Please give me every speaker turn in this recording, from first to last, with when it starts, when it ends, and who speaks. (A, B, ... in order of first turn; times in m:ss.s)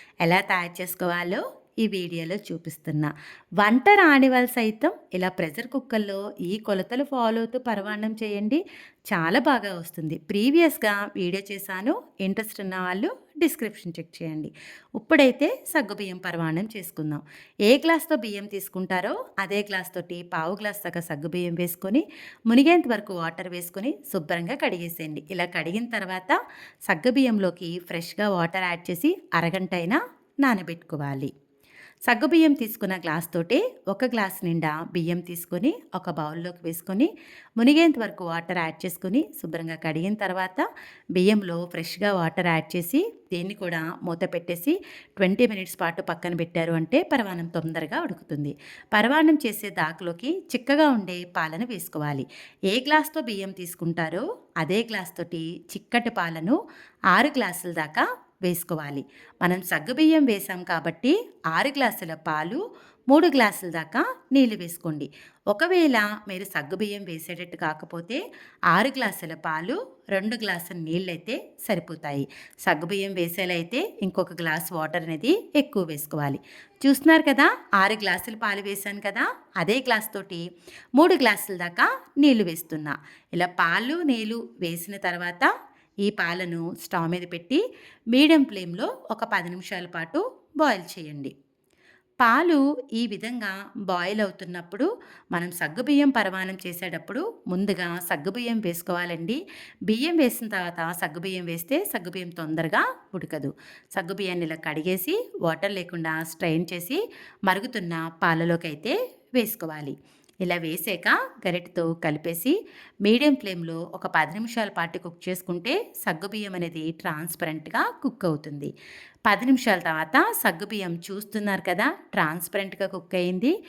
0:00.2-0:31.3 A
0:32.1-0:56.6 A
0:57.1-1:20.4 A
1:21.0-1:25.5 A
1:26.0-1:31.3 A
1:32.2-1:58.7 A
1:59.3-2:03.5 A